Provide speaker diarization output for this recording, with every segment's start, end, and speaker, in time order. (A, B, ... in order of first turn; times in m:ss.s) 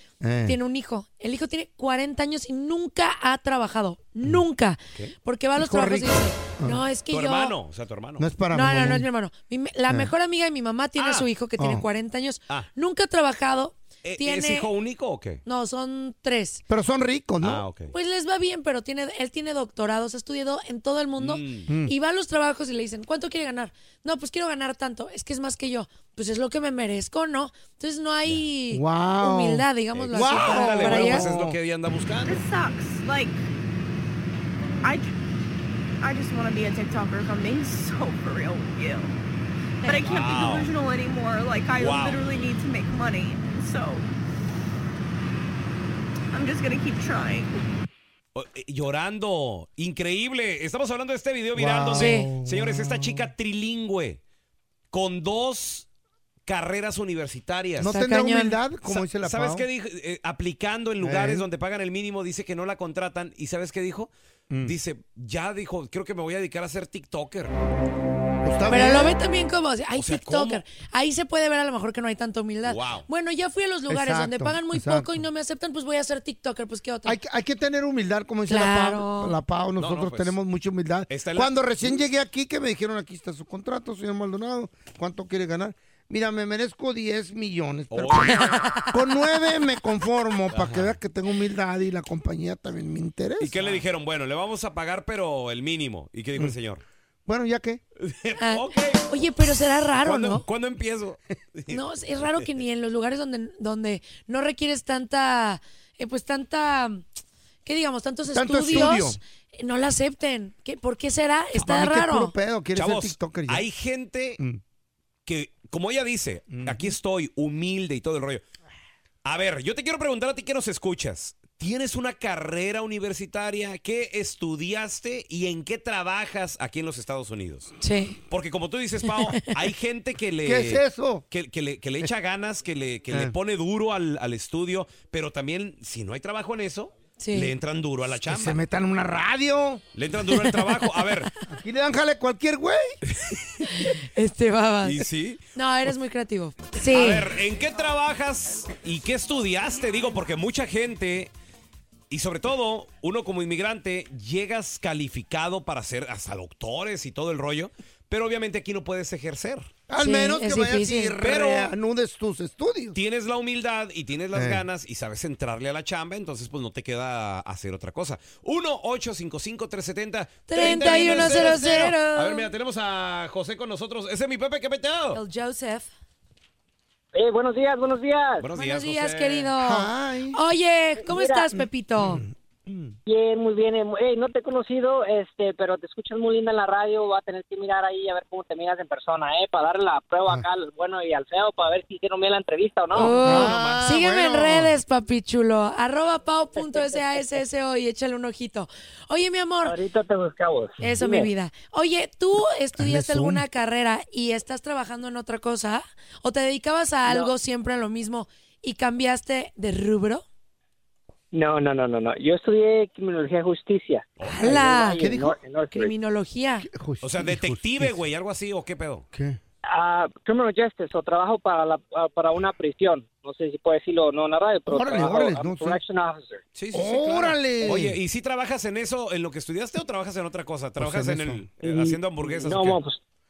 0:00.2-0:00.6 A
0:00.5-0:07.6 B
0:05.6-0:06.8 A
0:07.1-0:08.3 C
0:08.2-0:09.1 A
0:08.5-0:14.7 B
0:11.0-0:11.2 C
0:11.6-0:11.9 A
0:14.0-0:15.4 C
0:15.4-0:16.6 B
0:16.7-0:17.6 A
0:17.4-0:17.9 C
0:17.9-0:31.3 B
0:21.2-0:21.7 C
0:21.7-0:21.9 A
0:28.7-0:31.6 A
0:29.9-0:32.4 C
0:32.2-0:33.4 D
0:34.8-0:35.1 D
0:36.0-0:39.2 D
0:39.8-0:44.2 D
0:40.0-0:40.7 C
0:41.8-0:42.4 C
0:46.3-0:47.6 D
0:48.4-0:54.2 C
0:51.6-0:53.3 A
0:52.0-0:52.3 B
0:54.9-0:55.9 C
0:56.5-0:57.9 C
0:57.8-0:59.7 A
0:57.9-0:58.6 B
0:58.8-1:04.1 C
1:01.0-1:01.5 A
1:04.6-1:07.5 C
1:08.4-1:09.1 A
1:08.7-1:17.2 B
1:10.0-1:10.6 C
1:12.6-1:13.1 C
1:13.9-1:15.1 A
1:17.0-1:33.8 A
1:18.5-1:19.4 B
1:19.8-1:20.4 C
1:21.1-1:22.0 C
1:27.9-1:28.6 C
1:28.5-1:28.9 B
1:30.5-1:31.0 C
1:33.4-1:36.8 C
1:37.3-1:37.8 A
1:38.0-1:39.0 C
1:38.4-1:40.4 B
1:40.0-1:42.5 C
1:41.7-1:47.0 B
1:47.6-1:52.3 B
1:48.3-1:49.2 A
1:51.6-1:53.6 A
1:52.8-1:54.4 C
1:55.3-1:58.4 C
1:56.5-1:57.0 A
1:59.2-2:07.7 C
2:07.8-2:08.2 B
2:08.3-2:18.6 C
2:09.1-2:09.5 B
2:10.4-2:11.2 A
2:17.2-2:17.5 B
2:18.3-2:19.8 A
2:20.0-2:21.3 C
2:20.3-2:20.9 B
2:21.5-2:23.0 A
2:23.1-2:23.7 C
2:23.7-2:25.0 B
2:24.8-2:25.4 C
2:25.6-2:27.3 B
2:26.9-2:31.3 C
2:32.1-2:39.7 C
2:39.9-2:43.0 A
2:40.0-2:41.2 B
2:41.2-2:41.7 C
2:42.9-2:55.2 C
2:44.3-2:44.6 A
2:50.5-2:52.5 B
2:50.6-2:51.9 A
2:55.1-2:55.9 B
2:57.1-2:58.5 E
2:58.4-2:59.5 C
2:58.6-3:02.2 B
2:59.6-3:00.4 A
3:01.0-3:01.5 E
3:02.0-3:03.0 A
3:03.1-3:13.3 E
3:12.9-3:19.8 B
3:13.0-3:14.8 A
3:13.1-3:13.8 C
3:16.6-3:17.2 E
3:19.6-3:21.3 E
3:20.8-3:30.2 B
3:22.8-3:23.4 A
3:27.1-3:27.3 E
3:31.3-3:35.9 E
3:34.2-3:34.7 C
3:34.2-3:35.0 B
3:35.0-3:35.4 A
3:35.7-3:36.7 B
3:36.6-3:38.0 A
3:37.0-3:39.1 C
3:39.1-3:39.4 A
3:39.6-3:46.4 E
3:44.7-3:45.8 A
3:46.6-3:52.8 C
3:46.7-3:48.0 A
3:50.8-3:51.5 A
3:51.6-3:53.0 E